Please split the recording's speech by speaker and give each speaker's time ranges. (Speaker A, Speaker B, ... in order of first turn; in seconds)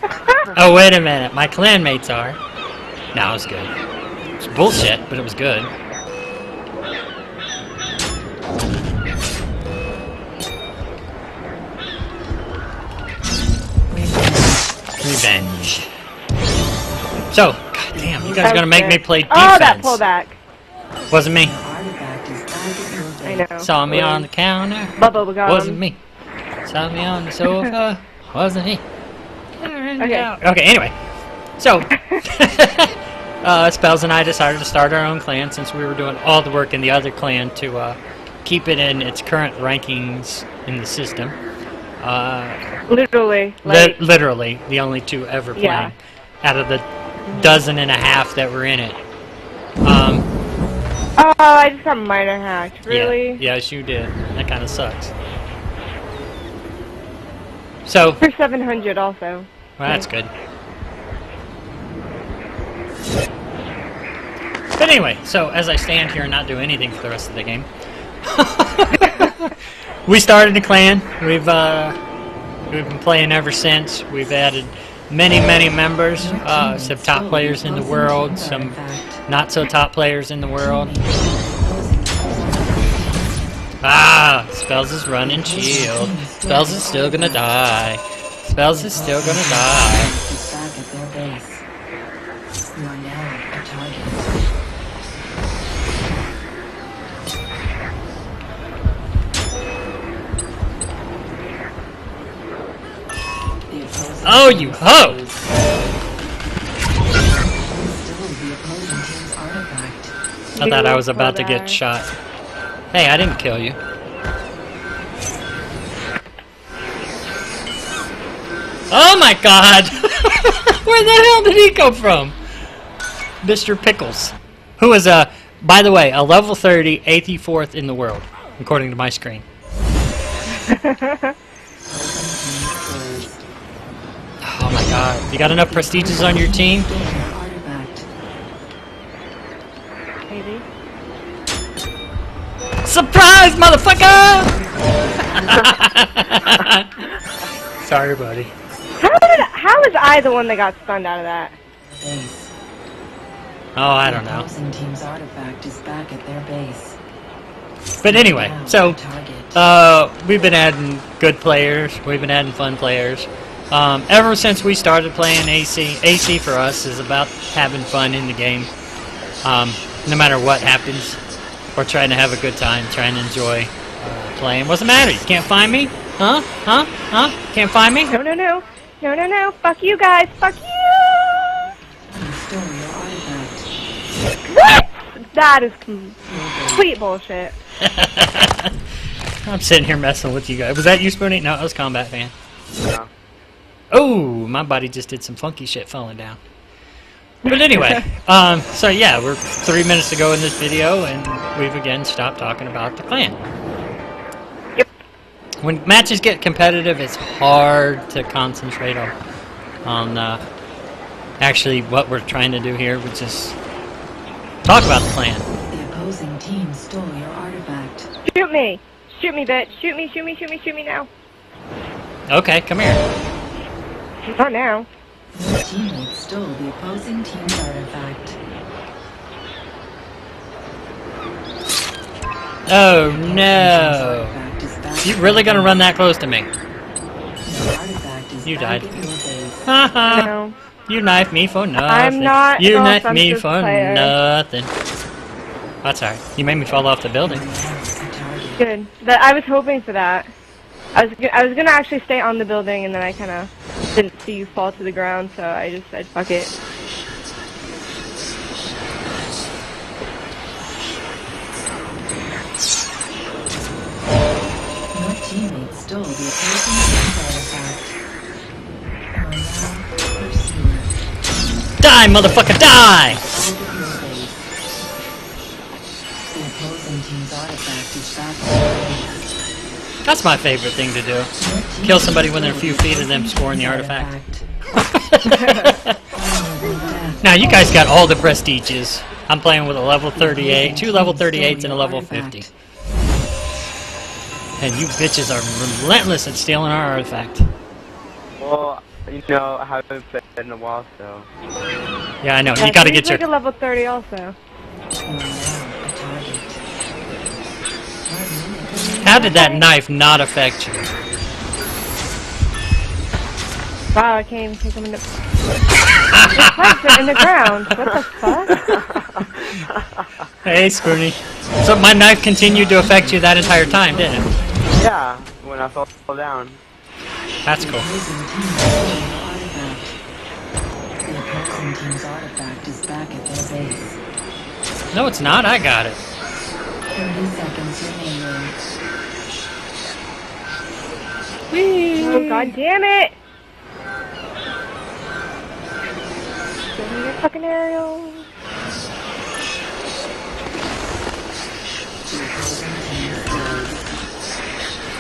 Speaker A: 0.5-2.4, 3.1-3.7, 4.4-5.7, 15.0-15.9, 17.3-20.0, 21.1-21.6, 23.6-26.0, 26.6-28.8, 29.6-31.0, 31.6-41.4, 42.0-42.6, 43.6-49.0, 49.8-50.3, 52.9-55.1, 57.9-58.2, 59.8-60.3, 64.8-67.7, 68.2-69.5, 70.1-72.0, 72.7-80.9, 83.8-90.1, 104.2-105.2, 110.6-112.1, 112.9-113.8, 118.9-122.4, 123.4-129.4, 134.4-136.9, 142.8-144.6, 145.4-147.1, 147.8-148.5, 153.8-154.5, 158.0-159.0, 159.5-168.7, 169.4-171.2, 171.8-178.1, 187.8-188.7, 189.4-192.3, 193.9-196.4, 197.4-203.4, 205.6-209.2, 209.8-210.4, 211.4-213.6, 214.7-215.5, 222.3-223.0, 232.7-234.4, 235.0-236.5, 238.4-238.9, 239.7-240.3, 240.9-244.7, 245.8-247.5, 271.8-273.2, 280.1-284.1, 284.8-285.9, 287.2-292.5, 294.6-297.5, 302.2-303.2, 309.0-310.9, 316.1-317.2, 320.4-324.3, 327.4-327.9, 334.9-336.0, 341.5-342.6
Speaker B: 13.9-14.8, 17.9-18.6, 21.4-23.5, 76.2-79.2, 80.5-83.6, 85.2-87.6, 88.6-91.6, 92.8-94.3, 103.7-105.6, 107.6-110.2, 131.9-133.4, 135.5-138.1, 144.2-145.9, 151.8-152.5, 154.0-157.0, 158.0-159.6, 182.1-183.7, 186.3-186.9, 215.7-218.1, 225.3-228.4, 233.1-235.9, 237.4-239.7, 247.2-248.7, 264.9-268.0, 269.1-270.9, 273.1-274.5, 276.3-279.3, 281.4-284.5, 286.1-287.4, 290.1-292.5, 305.1-306.6, 308.1-309.6, 322.4-324.9, 327.6-330.0, 331.0-334.0, 336.9-338.6, 352.1-353.9
Speaker C: 18.4-20.4, 23.2-24.3, 25.0-25.8, 30.0-30.3, 42.9-44.0, 45.6-45.9, 47.3-47.6, 51.2-53.4, 58.2-60.1, 110.5-111.8, 130.5-131.3, 140.3-140.7, 149.0-151.6, 178.1-181.6, 184.5-187.6, 218.3-221.1, 224.2-224.9, 240.1-240.6, 241.8-244.1, 248.6-250.3, 250.9-256.5, 285.3-285.7, 302.5-304.4, 308.7-309.6, 313.9-315.0, 316.3-318.7, 342.0-343.2, 346.8-348.3
Speaker D: 192.8-193.1, 298.4-301.3, 318.9-320.1, 324.8-326.6